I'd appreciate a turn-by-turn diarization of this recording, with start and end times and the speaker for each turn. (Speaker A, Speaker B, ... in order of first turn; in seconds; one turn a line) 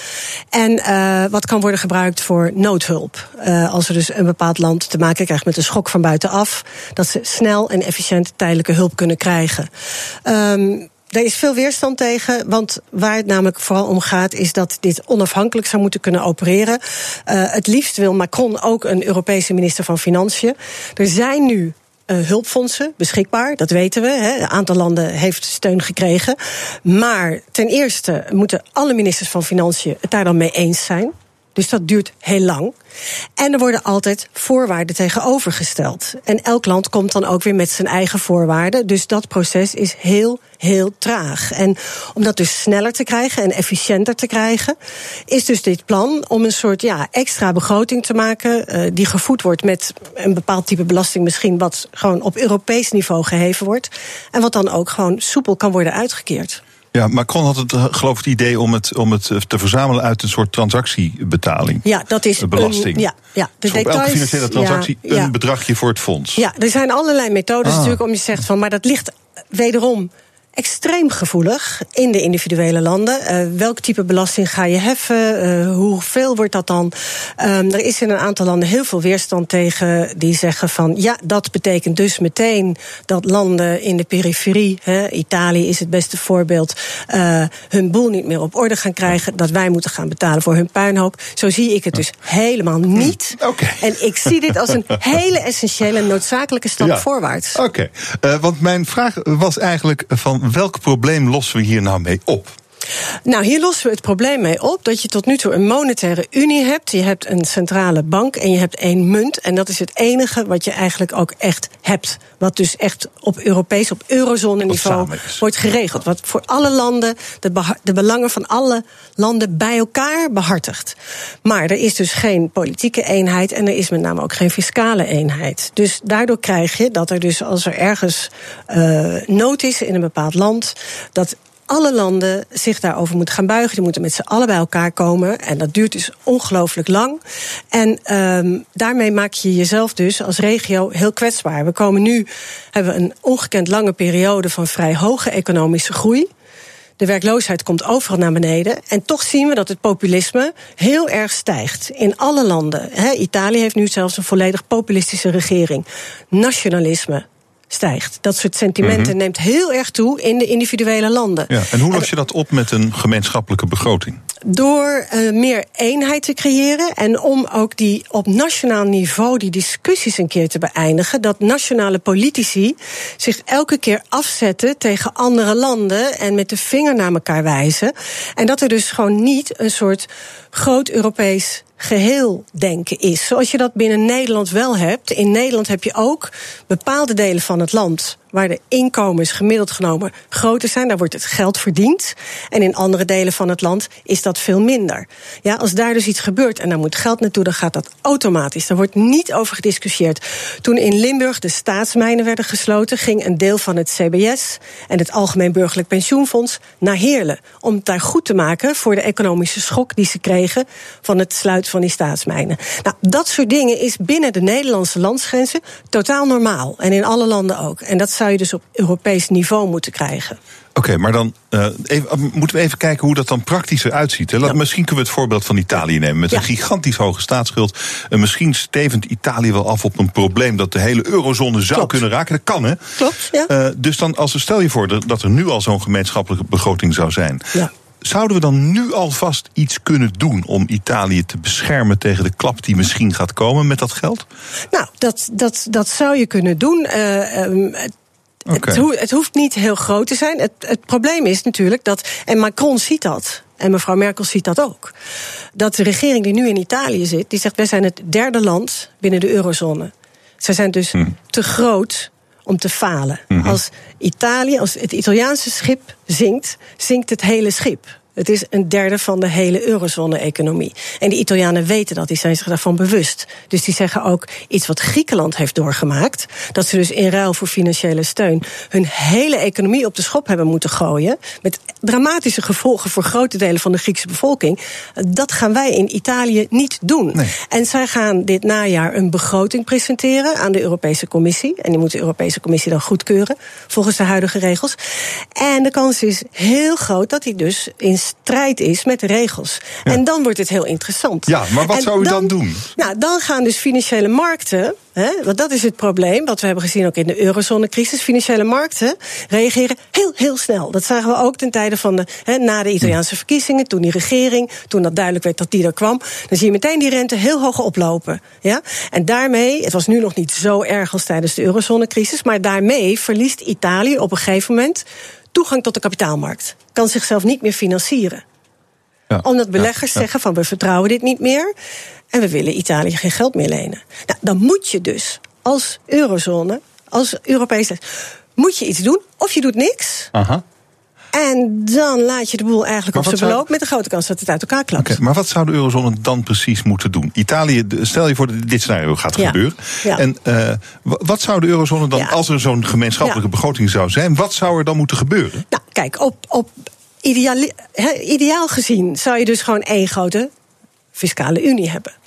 Speaker A: 0.5-9.7
Speaker A: 10.3-32.7
Speaker A: 33.4-44.8
Speaker A: 45.3-56.6
Speaker B: 56.9-61.9
Speaker A: 61.8-65.3
Speaker B: 62.4-63.1
Speaker B: 63.6-66.4
Speaker A: 66.4-97.6
Speaker B: 67.6-68.0
Speaker B: 93.0-94.6
Speaker B: 96.8-102.5
Speaker A: 103.3-137.2
Speaker B: 114.7-115.4
Speaker A: 137.7-146.3
Speaker A: 147.0-162.1
Speaker B: 158.8-159.1
Speaker B: 161.5-164.2
Speaker A: 164.4-220.4
Speaker B: 220.8-232.8
Speaker A: 233.0-233.5
Speaker B: 233.5-244.2
Speaker A: 244.7-247.9
Speaker B: 248.5-248.8
Speaker A: 248.5-254.9
Speaker A: 255.6-294.8
Speaker B: 263.3-263.6
Speaker A: 295.4-328.2
Speaker B: 301.3-302.8
Speaker B: 329.1-330.0
Speaker A: 329.2-331.5
Speaker A: 332.1-337.8
Speaker A: 338.4-340.1
Speaker B: 340.1-340.4
Speaker A: 341.1-345.0
Speaker B: 342.9-343.4
Speaker B: 344.8-355.4
Speaker A: 349.2-350.0
Speaker A: 355.5-356.5
Speaker A: 357.0-360.3
Speaker A: 361.0-361.9